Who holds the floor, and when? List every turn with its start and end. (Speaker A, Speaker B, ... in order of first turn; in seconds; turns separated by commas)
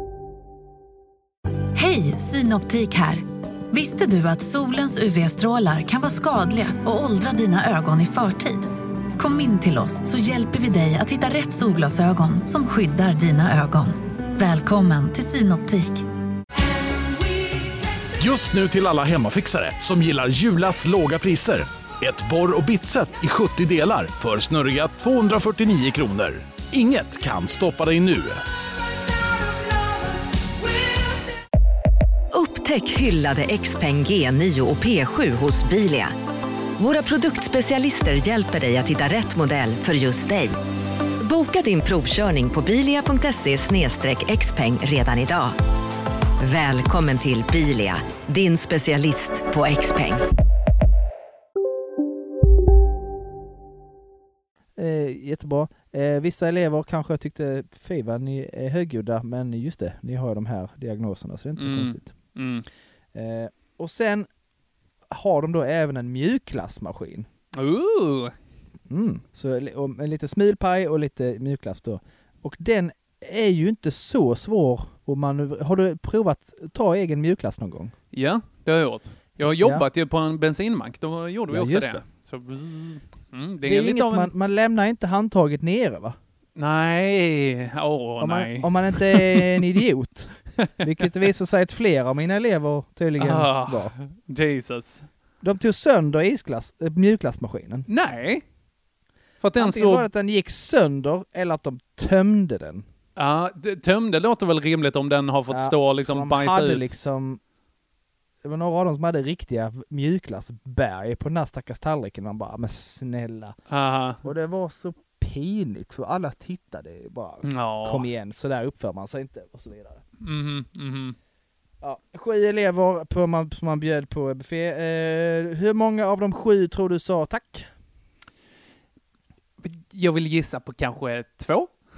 Speaker A: 1.7-16.1, Speaker B: 18.2-28.4, Speaker C: 32.3-36.1, Speaker C: 36.8-40.5, Speaker C: 41.2-45.6, Speaker C: 46.4-50.2, Speaker D: 54.8-62.1, Speaker E: 61.6-62.7, Speaker D: 63.1-64.3, Speaker D: 65.1-67.3, Speaker E: 67.5-68.3, Speaker D: 68.9-77.9, Speaker E: 78.1-84.3, Speaker D: 79.4-79.8, Speaker D: 81.5-82.0, Speaker D: 83.6-86.2, Speaker E: 86.5-89.7, Speaker D: 88.2-93.9, Speaker E: 93.2-95.1, Speaker D: 95.4-97.9, Speaker E: 97.9-98.4, Speaker E: 99.4-100.1, Speaker D: 99.6-102.8, Speaker E: 103.2-106.9, Speaker D: 105.5-107.4, Speaker D: 108.4-113.6, Speaker E: 113.7-114.2, Speaker D: 114.2-120.0, Speaker E: 117.4-118.1, Speaker E: 120.2-121.2, Speaker D: 121.8-127.7, Speaker E: 129.6-131.7